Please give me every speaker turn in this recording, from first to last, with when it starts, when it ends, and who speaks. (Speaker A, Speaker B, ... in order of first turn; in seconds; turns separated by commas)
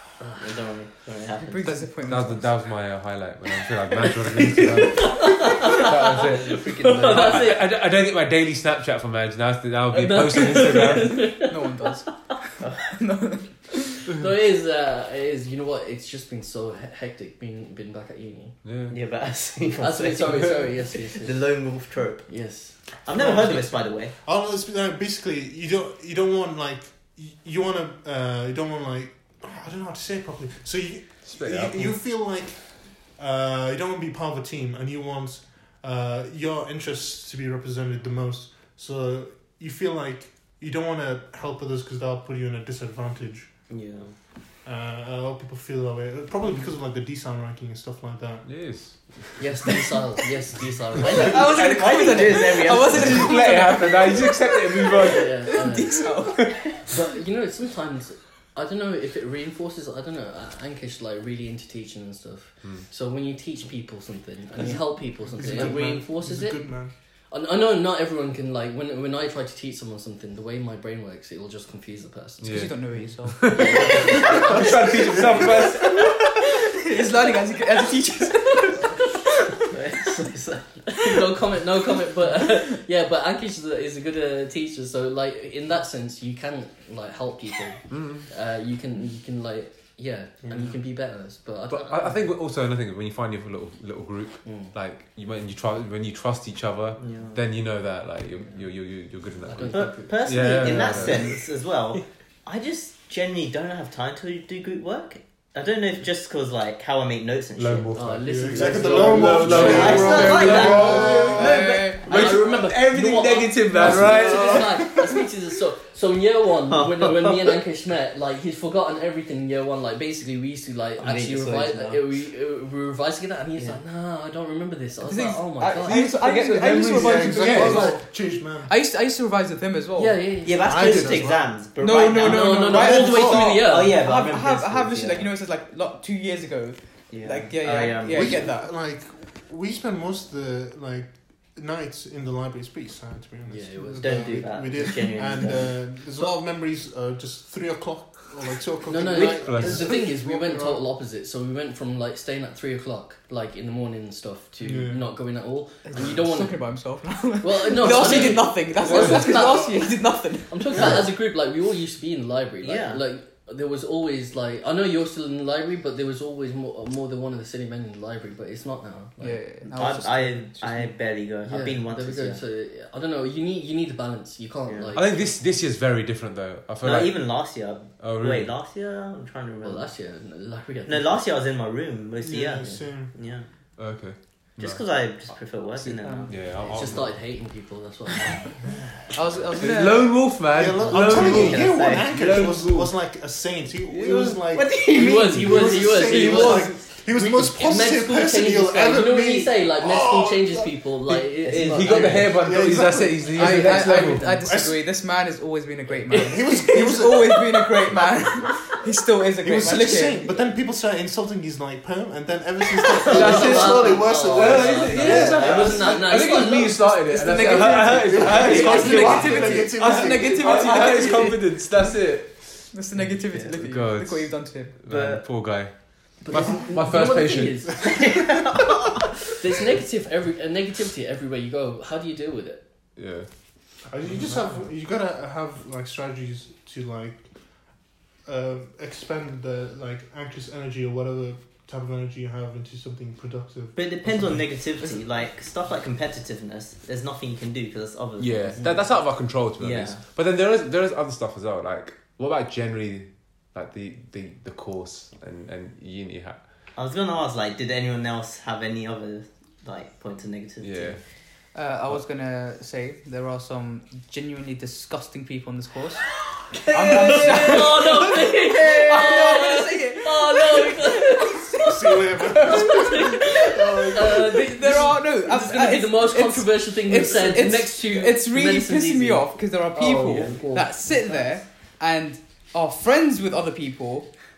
Speaker A: 0.3-1.8, Speaker B: 1.4-2.5, Speaker C: 2.0-11.4, Speaker D: 4.2-7.7, Speaker A: 5.4-5.9, Speaker A: 6.5-7.4, Speaker D: 9.9-11.6, Speaker B: 11.5-14.0, Speaker A: 12.6-12.9, Speaker D: 14.1-18.6, Speaker C: 18.6-19.0, Speaker A: 18.9-22.3, Speaker D: 19.8-21.6, Speaker D: 22.3-22.9, Speaker A: 23.0-24.1, Speaker E: 23.1-43.5, Speaker C: 31.2-31.9, Speaker A: 43.7-44.1, Speaker E: 44.6-48.5, Speaker C: 48.5-49.4, Speaker D: 49.4-51.6, Speaker A: 51.1-53.3, Speaker B: 51.2-56.9, Speaker C: 52.9-55.5, Speaker D: 55.1-56.1, Speaker D: 56.8-66.8, Speaker E: 64.6-66.9, Speaker D: 67.3-72.7, Speaker C: 72.4-76.1, Speaker B: 72.5-73.6, Speaker D: 73.5-75.5, Speaker E: 74.5-75.4, Speaker B: 75.8-79.6, Speaker A: 79.7-80.8, Speaker D: 80.9-92.2, Speaker C: 87.9-88.3, Speaker A: 90.4-90.8, Speaker C: 91.7-101.3, Speaker D: 94.5-94.7, Speaker A: 97.0-97.4, Speaker D: 99.4-101.2, Speaker A: 99.7-108.0, Speaker C: 107.6-111.4, Speaker D: 108.0-111.4, Speaker E: 108.2-111.6, Speaker A: 108.8-112.8, Speaker B: 110.4-112.1, Speaker C: 112.0-114.7, Speaker D: 112.0-126.0, Speaker A: 113.7-114.6, Speaker E: 113.9-115.2, Speaker A: 116.7-117.6, Speaker A: 121.0-122.0, Speaker A: 123.6-123.8, Speaker B: 125.0-130.2, Speaker C: 125.9-128.0, Speaker E: 126.0-128.7, Speaker D: 129.9-131.3, Speaker A: 130.4-135.3, Speaker E: 130.6-131.5, Speaker B: 131.8-138.7, Speaker D: 132.2-133.9, Speaker E: 132.7-133.4, Speaker A: 137.1-138.4, Speaker E: 138.1-150.8, Speaker D: 143.5-144.8, Speaker A: 144.0-145.7, Speaker D: 148.9-156.7, Speaker C: 149.2-149.9, Speaker E: 154.6-155.1, Speaker B: 155.9-160.9, Speaker D: 157.4-159.9, Speaker C: 158.0-159.5, Speaker D: 160.5-169.6, Speaker A: 162.6-163.0, Speaker B: 169.2-170.9, Speaker A: 169.7-172.4, Speaker D: 171.4-175.3, Speaker A: 174.7-174.9, Speaker C: 174.9-177.2, Speaker A: 176.8-179.9, Speaker C: 178.0-178.5, Speaker D: 179.6-181.2, Speaker A: 180.9-183.5, Speaker E: 182.2-183.1, Speaker C: 183.8-184.8, Speaker A: 184.6-186.8, Speaker C: 185.8-187.2, Speaker D: 186.6-188.6, Speaker B: 189.1-190.1, Speaker E: 189.5-189.8, Speaker C: 189.6-192.9, Speaker E: 190.5-201.3, Speaker D: 190.8-191.6, Speaker A: 191.1-192.2, Speaker C: 193.9-194.4, Speaker A: 194.5-196.5, Speaker D: 194.9-202.3, Speaker C: 195.5-196.6, Speaker A: 201.5-202.3, Speaker C: 201.5-204.3, Speaker E: 202.2-203.8, Speaker B: 203.3-210.3, Speaker D: 203.6-204.4, Speaker E: 204.4-204.8, Speaker D: 206.1-206.9, Speaker E: 206.1-207.9, Speaker E: 209.4-216.3, Speaker D: 212.8-218.0, Speaker C: 213.0-222.7, Speaker A: 215.0-216.0, Speaker B: 216.6-221.5, Speaker E: 218.0-221.0, Speaker B: 222.7-224.8, Speaker C: 223.5-227.7, Speaker A: 224.9-225.2, Speaker D: 226.2-228.2, Speaker A: 227.8-229.3, Speaker D: 229.4-232.6, Speaker C: 233.0-233.3, Speaker E: 233.9-237.3, Speaker E: 238.2-244.4, Speaker A: 243.8-248.8, Speaker C: 248.2-256.4, Speaker A: 249.6-250.0, Speaker A: 256.8-261.0, Speaker C: 260.6-261.0, Speaker B: 261.6-266.1, Speaker A: 266.5-269.4, Speaker B: 266.7-284.1, Speaker D: 267.1-271.8, Speaker E: 271.6-274.5, Speaker D: 272.4-280.8, Speaker A: 279.8-280.5